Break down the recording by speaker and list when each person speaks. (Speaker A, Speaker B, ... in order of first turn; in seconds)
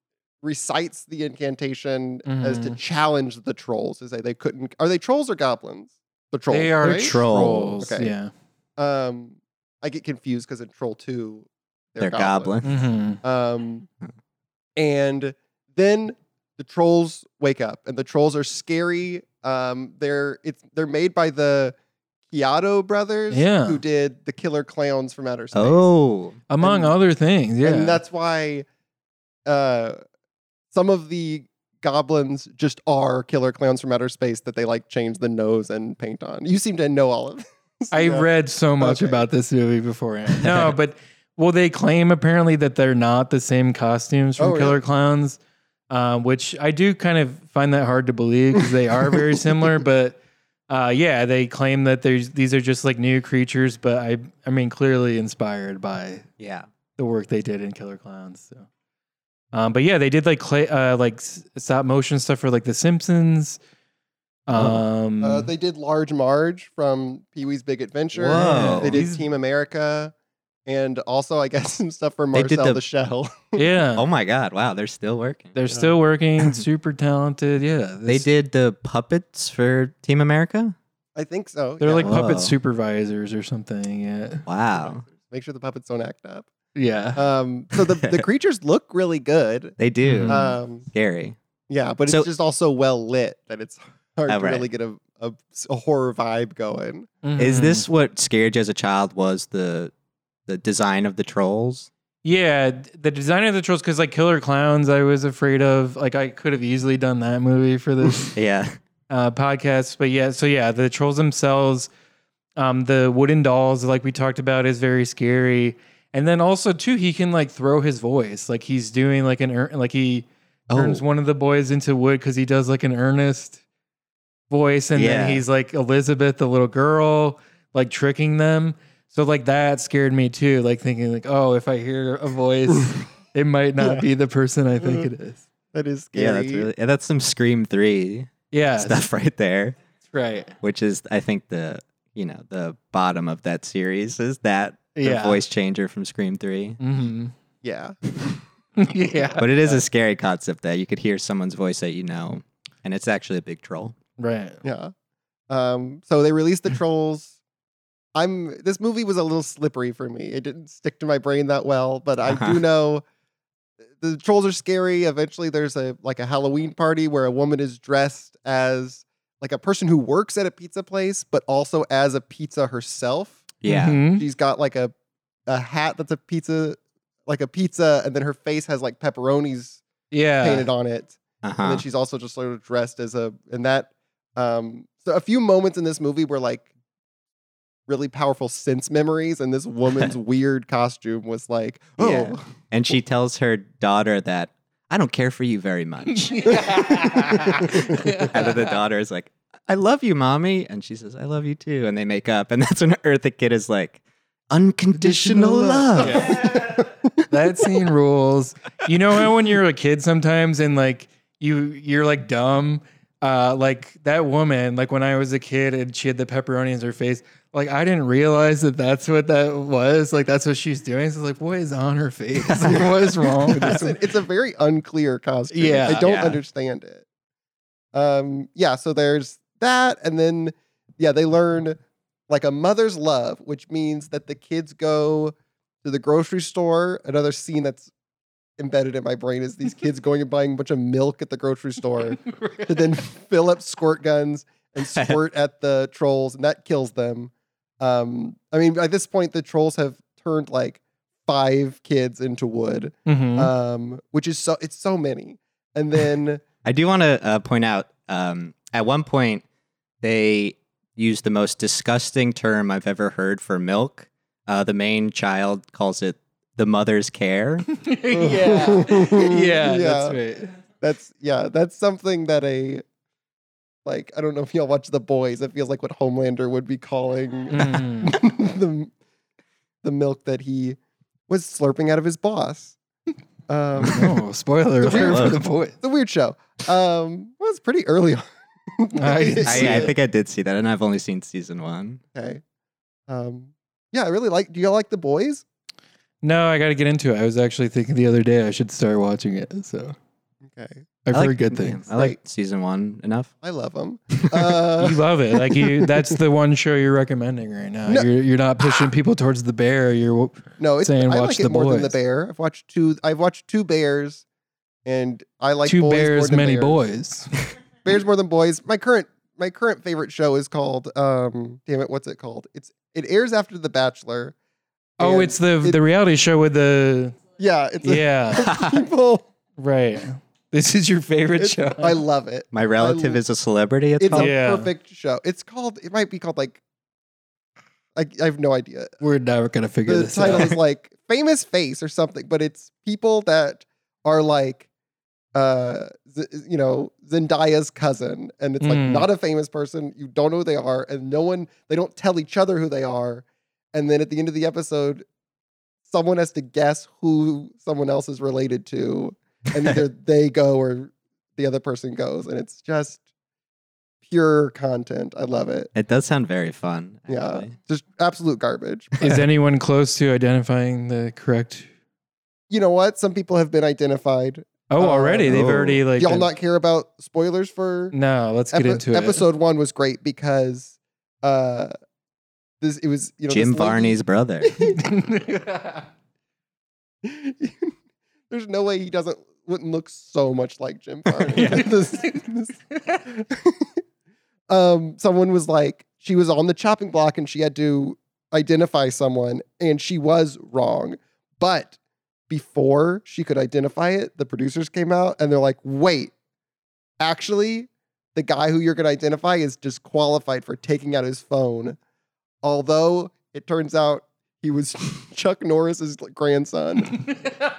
Speaker A: 0.4-7.2, 7.8-8.1, 8.8-12.7, 13.2-13.9, 14.8-21.8, 22.3-25.8, 26.6-26.9, 27.6-28.6, 29.4-30.0, 30.7-38.3, 38.8-39.2, 44.4-44.8, 49.1-49.4, 65.2-70.1, 70.7-73.7, 75.7-75.9, 81.1-82.2, 84.8-86.5, 87.1-90.8, 91.7-97.1, 135.7-136.7, 147.6-147.9, 154.6-154.9, 155.5-157.3, 158.1-163.0, 164.0-173.4, 174.2-174.9, 175.5-179.8, 180.4-186.7, 187.9-192.4, 197.4-198.2, 205.7-207.1, 223.5-227.0, 227.9-231.8, 232.3-237.9, 238.6-256.4, 268.1-270.2, 270.8-272.8, 273.8-278.9, 279.8-280.8, 281.3-282.8, 283.5-284.1, 284.8-289.9, 292.1-292.4, 293.1-295.4, 300.4-300.8, 301.9-302.2, 303.4-306.0, 310.6-314.2, 314.8-316.9, 317.8-324.3, 325.0-325.8, 327.4-329.2, 331.4-333.2, 334.0-336.6, 337.9-338.9, 339.9-344.6, 345.3-355.0, 355.9-363.0, 364.0-365.7, 367.1-369.0, 372.5-375.4, 375.9-377.9, 378.5-381.7, 382.6-384.8, 387.0-387.7, 388.3-393.8, 394.5-401.8, 402.3-406.1, 407.0-411.8, 412.4-417.0
Speaker B: 2.2-2.8, 6.5-8.3, 12.6-13.2, 23.3-23.8, 26.5-28.0, 37.9-45.4, 45.9-56.3, 57.0-58.7, 59.5-63.6, 64.5-65.5, 68.3-69.2, 73.5-74.0, 75.5-78.3, 81.8-84.4, 86.7-87.2, 90.0-90.4, 97.2-97.8, 102.2-108.3, 109.1-111.9, 112.6-123.6, 124.5-135.4, 138.5-139.0, 140.1-140.5, 144.9-145.4, 146.8-147.3, 148.8-149.8, 154.2-154.6, 173.7-174.2, 180.1-180.7, 196.2-198.7, 205.0-223.9, 225.5-226.1, 242.3-242.7, 253.1-253.5, 267.7-270.5, 277.5-278.2, 283.9-285.8, 288.9-289.9, 296.2-299.9, 301.1-301.8, 304.8-311.9, 315.6-317.4, 325.0-327.1, 327.8-328.5, 329.6-332.0, 334.1-334.7, 339.0-340.5, 348.6-349.1, 369.0-371.7, 374.7-376.3, 377.9-379.2, 384.7-385.8
Speaker C: 6.8-7.9, 12.0-12.6, 25.5-26.4, 40.4-40.7, 56.4-56.7, 64.5-64.8, 68.1-69.0, 72.3-72.8, 74.0-75.5, 78.1-80.7, 82.0-82.5, 84.5-85.0, 89.8-91.4, 94.3-94.7, 97.4-99.9, 100.5-101.9, 108.3-108.8, 120.7-121.0, 125.0-125.4, 136.1-139.8, 140.6-146.8, 149.3-153.9, 162.2-162.6, 173.6-174.0, 181.4-181.8, 192.0-206.5, 222.4-223.8, 225.9-226.4, 256.6-259.4, 260.0-267.7, 283.8-284.1, 284.8-285.4, 289.4-292.0, 301.1-303.3, 304.1-304.6, 328.4-328.8, 332.5-334.3, 365.7-367.5, 368.9-369.2, 375.3-375.8, 383.3-384.7, 391.3-391.7